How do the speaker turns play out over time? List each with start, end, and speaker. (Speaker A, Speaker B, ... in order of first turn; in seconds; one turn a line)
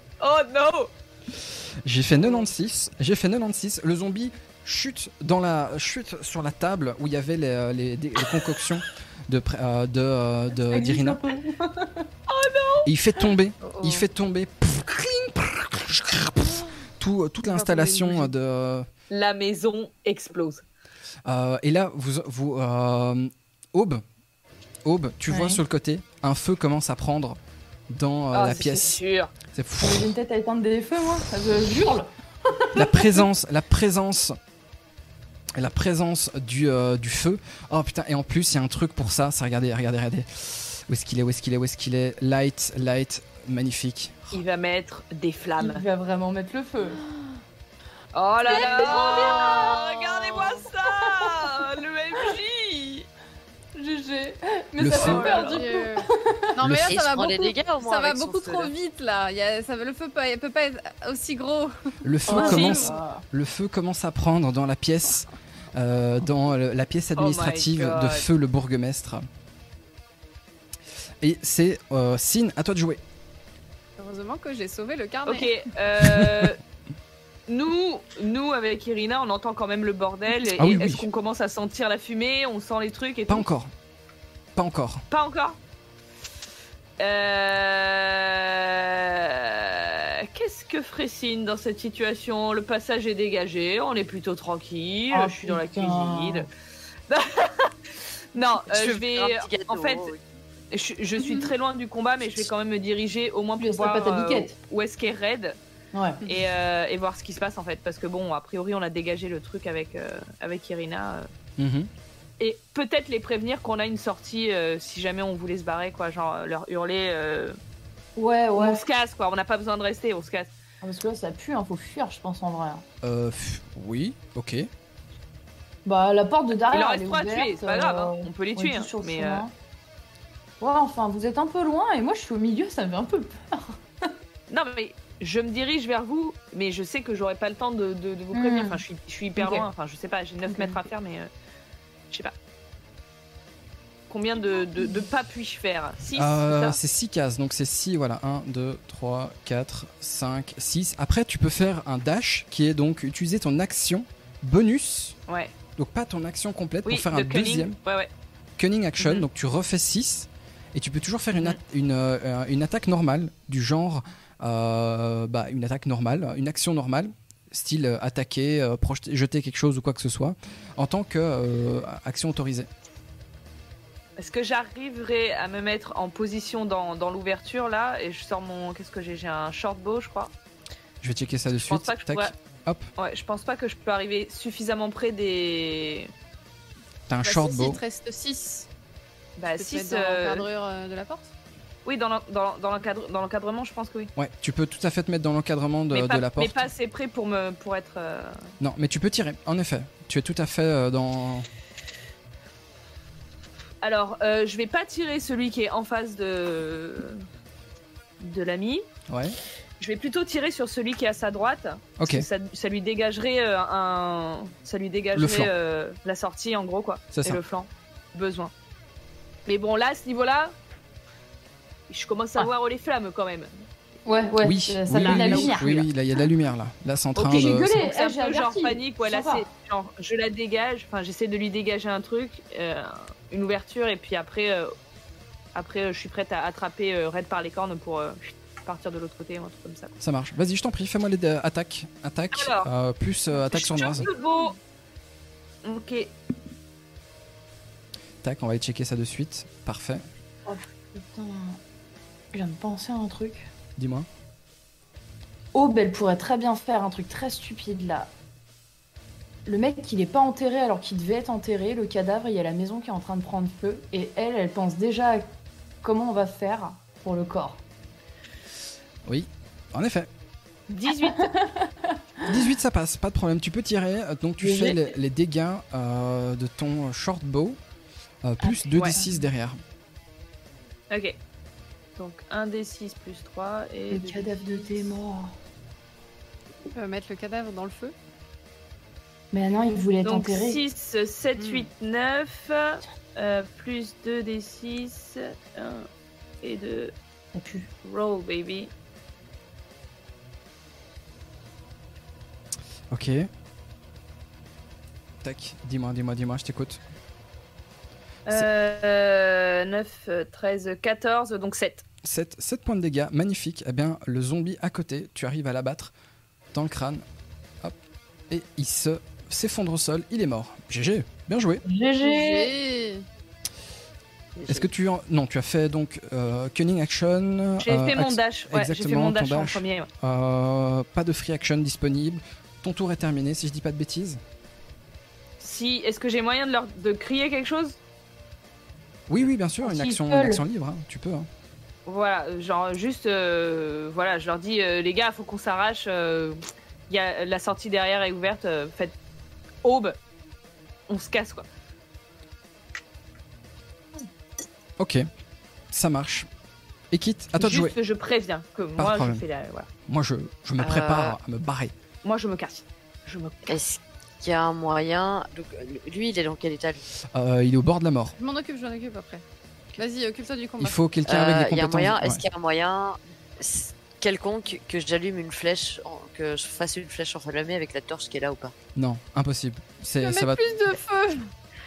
Speaker A: 0.2-0.9
Speaker B: 1.8-11.2
Speaker C: 10.7-12.1
Speaker A: 12.3-12.9
Speaker B: 12.8-18.9
Speaker D: 13.6-14.1
Speaker D: 17.4-18.3
Speaker A: 19.1-20.6
Speaker B: 21.3-24.0
Speaker B: 24.9-27.4
Speaker C: 25.3-25.6
Speaker B: 27.9-29.0
Speaker A: 28.3-29.3
Speaker B: 29.5-30.1
Speaker C: 29.8-33.2
Speaker B: 32.8-34.4
Speaker B: 35.6-44.4
Speaker A: 44.3-45.8
Speaker C: 45.6-47.0
Speaker A: 48.1-53.1
Speaker C: 48.4-51.5
Speaker D: 48.5-49.8
Speaker C: 53.8-56.5
Speaker B: 54.8-55.3
Speaker A: 54.9-55.6
Speaker D: 55.0-62.8
Speaker B: 56.6-57.0
Speaker E: 56.9-58.7
Speaker B: 62.0-69.2
Speaker C: 62.3-63.2
Speaker A: 62.3-63.0
Speaker A: 67.2-68.3
Speaker B: 71.2-73.0
Speaker D: 74.0-75.5
Speaker A: 75.3-76.6
Speaker B: 76.0-76.5
Speaker A: 77.5-83.5
Speaker B: 80.6-81.1
Speaker B: 83.3-83.7
Speaker B: 84.5-85.0
Speaker A: 85.1-85.6
Speaker A: 87.0-96.5
Speaker C: 95.1-96.5
Speaker A: 97.1-97.7
Speaker A: 98.3-100.1
Speaker E: 98.7-100.2
Speaker A: 100.7-105.6
Speaker C: 103.6-104.5
Speaker C: 105.9-106.3
Speaker A: 106.2-111.3
Speaker B: 111.6-111.9
Speaker A: 112.4-117.6
Speaker C: 118.2-118.8
Speaker A: 118.5-120.5
Speaker C: 120.8-122.8
Speaker B: 123.0-124.7
Speaker C: 125.8-129.5
Speaker A: 126.7-129.4
Speaker C: 130.6-134.1
Speaker A: 134.5-141.3
Speaker C: 138.3-138.8
Speaker C: 139.4-139.7
Speaker C: 140.5-140.8
Speaker A: 144.1-146.8
Speaker B: 146.1-155.2
Speaker A: 155.3-155.5
Speaker B: 155.8-157.8
Speaker A: 156.8-158.1
Speaker B: 158.6-172.7
Speaker A: 159.0-159.3
Speaker A: 174.2-180.3
Speaker B: 181.0-182.9
Speaker A: 181.5-182.3
Speaker A: 183.0-186.1
Speaker B: 187.1-187.8
Speaker D: 187.2-188.7
Speaker A: 189.4-190.5
Speaker D: 189.5-191.3
Speaker A: 191.8-194.1
Speaker B: 194.2-196.7
Speaker A: 195.9-198.5
Speaker B: 198.6-201.5
Speaker A: 203.8-207.2
Speaker A: 208.2-208.9
Speaker B: 209.1-209.4
Speaker A: 209.8-218.5
Speaker B: 212.0-212.3
Speaker B: 215.2-215.5
Speaker B: 217.1-217.4
Speaker A: 219.5-220.5
Speaker A: 221.9-223.6
Speaker C: 224.1-225.8
Speaker B: 224.4-227.9
Speaker A: 224.9-225.9
Speaker A: 227.2-234.8
Speaker C: 227.2-229.5
Speaker A: 235.6-239.9
Speaker B: 240.0-244.1
Speaker A: 242.3-242.7
Speaker A: 243.3-244.6
Speaker A: 245.6-246.1
Speaker B: 248.2-250.0
Speaker C: 250.5-251.6
Speaker C: 252.3-253.5
Speaker B: 253.8-254.1
Speaker C: 255.5-258.1
Speaker C: 259.5-265.3
Speaker C: 265.8-267.6
Speaker B: 269.1-270.1
Speaker A: 270.7-271.3
Speaker C: 270.9-272.3
Speaker B: 272.2-277.6
Speaker C: 274.4-274.9
Speaker B: 278.2-279.6
Speaker C: 278.4-279.2
Speaker A: 280.9-281.2
Speaker A: 282.0-284.9
Speaker C: 283.9-285.4
Speaker D: 286.7-287.9
Speaker C: 289.3-290.6
Speaker A: 290.0-295.9
Speaker D: 291.4-291.7
Speaker A: 296.4-296.9
Speaker C: 297.4-297.7
Speaker A: 297.8-298.7
Speaker B: 302.9-303.3
Speaker B: 305.2-306.8
Speaker A: 308.3-311.9
Speaker B: 312.0-315.9
Speaker B: 316.5-317.1
Speaker B: 318.3-321.6
Speaker C: 321.6-322.5
Speaker D: 322.0-323.1
Speaker E: 324.4-324.7
Speaker B: 324.5-334.2
Speaker A: 327.6-329.9
Speaker A: 335.4-337.8
Speaker B: 339.1-341.3
Speaker C: 339.6-340.4
Speaker A: 341.9-349.0
Speaker A: 349.6-350.0
Speaker A: 350.9-351.5
Speaker B: 354.8-355.1
Speaker B: 355.7-356.3
Speaker B: 356.9-357.8
Speaker A: 357.4-359.7
Speaker B: 358.8-359.2
Speaker B: 359.9-361.7
Speaker E: 360.6-361.2
Speaker A: 362.0-363.6
Speaker E: 363.5-366.8
Speaker B: 367.1-368.1
Speaker D: 368.2-369.2
Speaker D: 369.8-370.8
Speaker B: 370.6-372.2
Speaker E: 371.1-378.6
Speaker B: 378.8-380.6
Speaker D: 380.0-381.3